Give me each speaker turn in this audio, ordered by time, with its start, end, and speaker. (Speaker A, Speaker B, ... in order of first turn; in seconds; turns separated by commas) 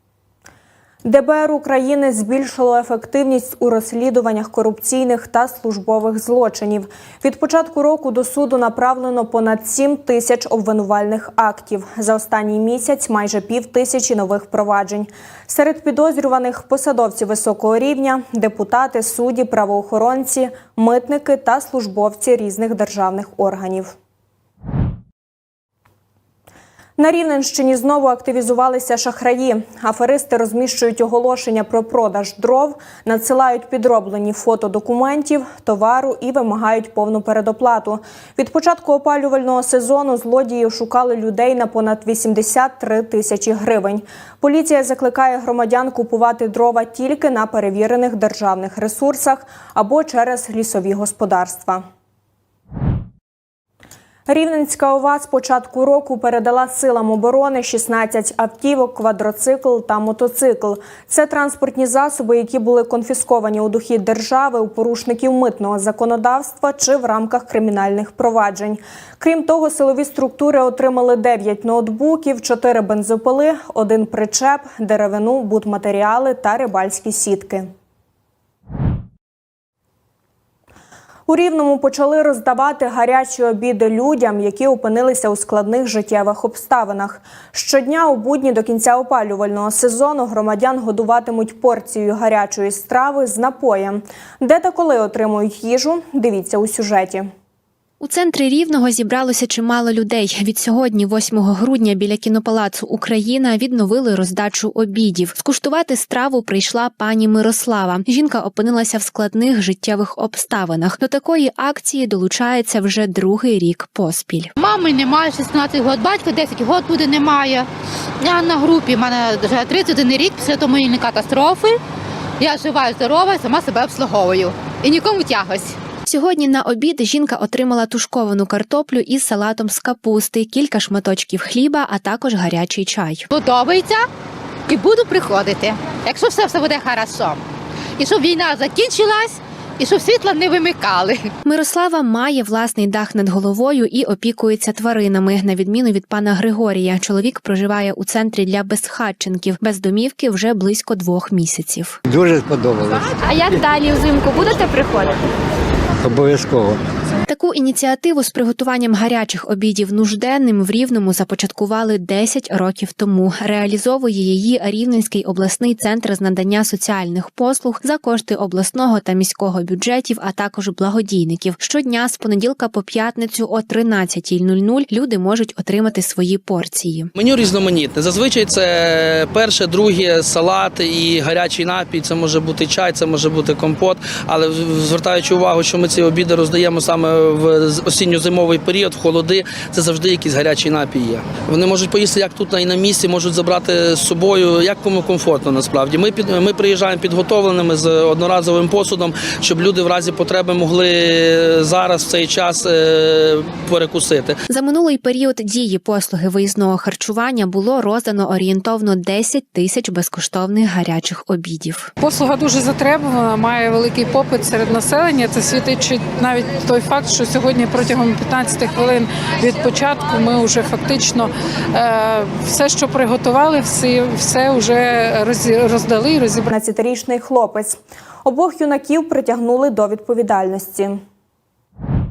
Speaker A: 1.0-23.9, Speaker A: 27.0-51.8, Speaker A: 54.3-77.7, Speaker A: 81.3-97.3, Speaker B: 98.0-114.5, Speaker C: 114.6-117.7, Speaker C: 118.2-121.8, Speaker C: 122.4-125.8, Speaker B: 126.1-133.3, Speaker C: 133.3-134.1, Speaker C: 134.7-137.4, Speaker C: 138.0-141.3, Speaker B: 141.4-152.0, Speaker D: 152.1-153.2, Speaker E: 153.2-155.2, Speaker D: 156.0-156.8, Speaker B: 157.3-177.1, Speaker F: 177.2-204.4, Speaker B: 204.5-211.9, Speaker G: 212.0-226.5, Speaker A: 226.5-231.0